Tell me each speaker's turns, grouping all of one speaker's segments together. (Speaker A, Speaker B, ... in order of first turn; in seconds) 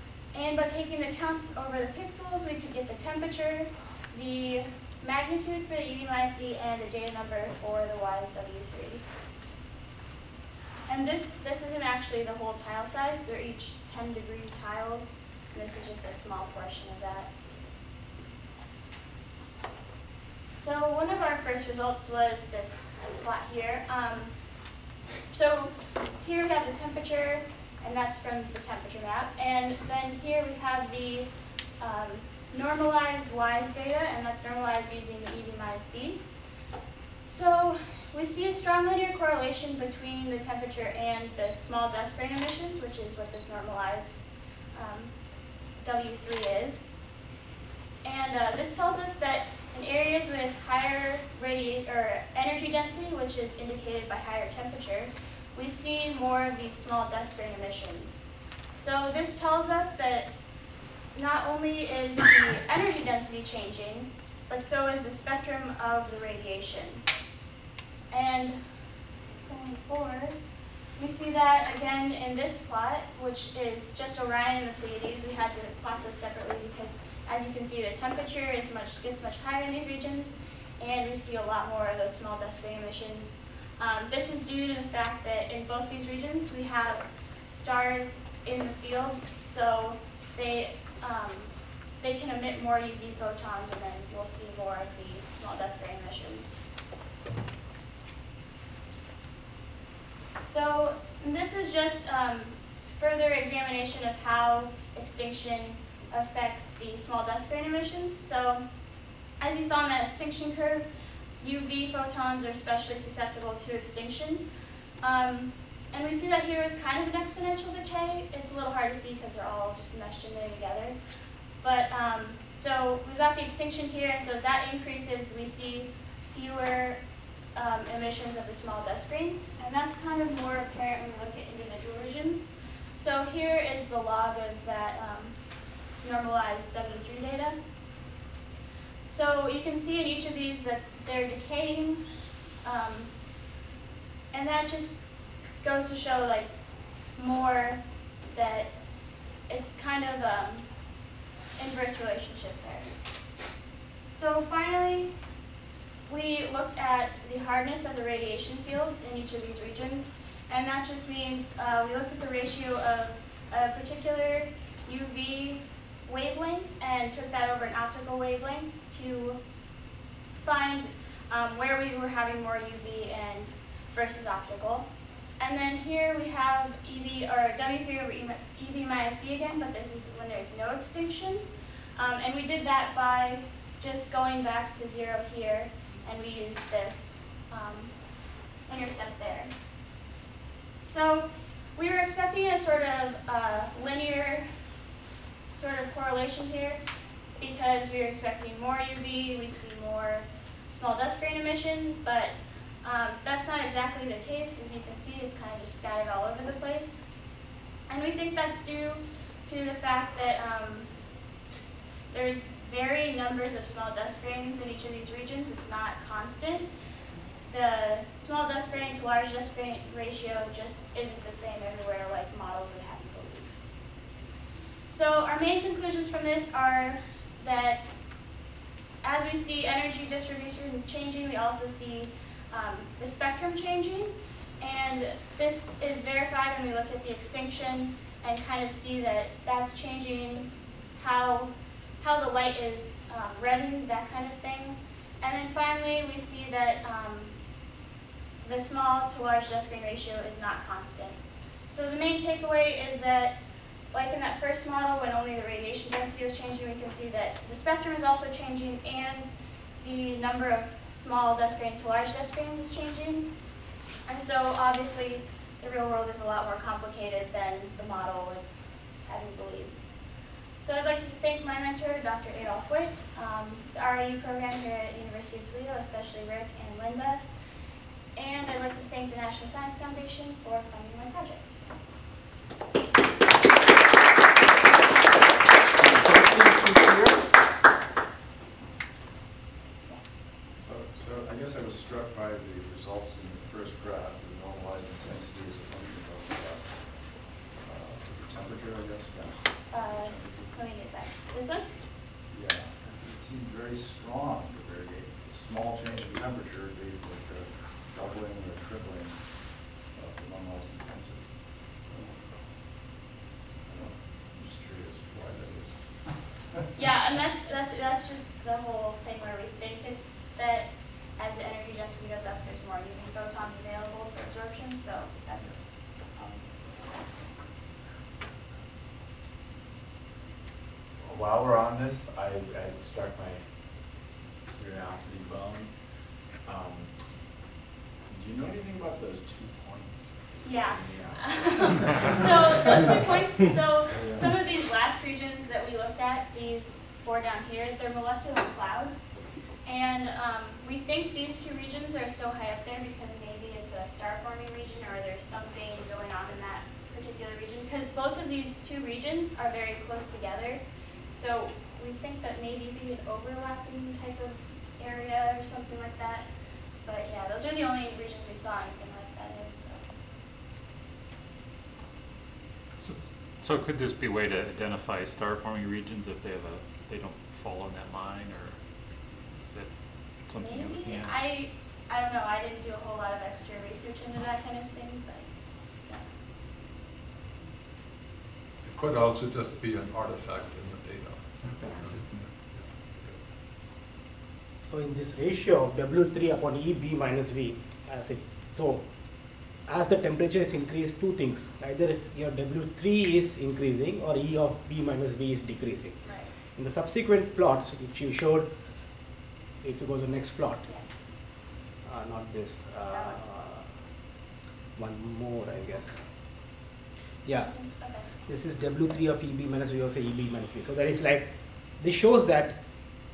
Speaker A: 0.3-9.0, 10.9-17.3, 20.5-24.3, 25.3-36.2, 37.2-44.2, 44.7-45.1, 45.8-46.9, 48.0-60.3, 61.1-67.0, 68.1-68.5, 69.4-70.3, 71.0-96.6, 100.4-108.6, 109.4-110.9, 111.4-114.4, 115.0-121.0, 121.6-127.0, 127.5-135.3, 136.0-137.6, 139.1-142.0, 142.6-143.1, 144.3-145.0, 145.6-146.5, 147.1-148.7, 149.5-150.7, 151.6-152.9, 154.1-155.1, 156.1-169.4, 170.4-174.9, 175.4-181.4, 182.0-187.9, 188.7-189.5, 190.8-194.5, 195.5-196.8, 197.4-207.1, 207.9-210.9, 212.1-216.7, 217.5-223.6, 224.9-227.9, 229.0-247.3, 248.4-253.3, 253.9-259.3, 259.8-263.3, 264.1-268.4, 269.1-269.8, 270.6-277.2, 278.1-281.6, 299.7-301.7, 316.7-325.6, 340.4-349.1, 349.6-366.3, 366.8-369.8, 380.4-385.3, 406.0-406.3, 412.9-413.2, 417.4-418.1
Speaker B: 286.3-286.6, 372.8-378.6, 379.4-381.2
Speaker C: 290.6-300.5, 302.3-311.9, 313.6-316.6
Speaker D: 326.1-326.6, 331.0-333.9, 334.5-337.0, 338.1-342.2
Speaker E: 388.6-393.2
Speaker F: 394.7-398.8, 399.7-406.0, 406.5-408.5, 409.6-410.6, 411.8-413.7, 414.8-416.0, 417.2-417.6, 418.2-421.3, 421.8-422.6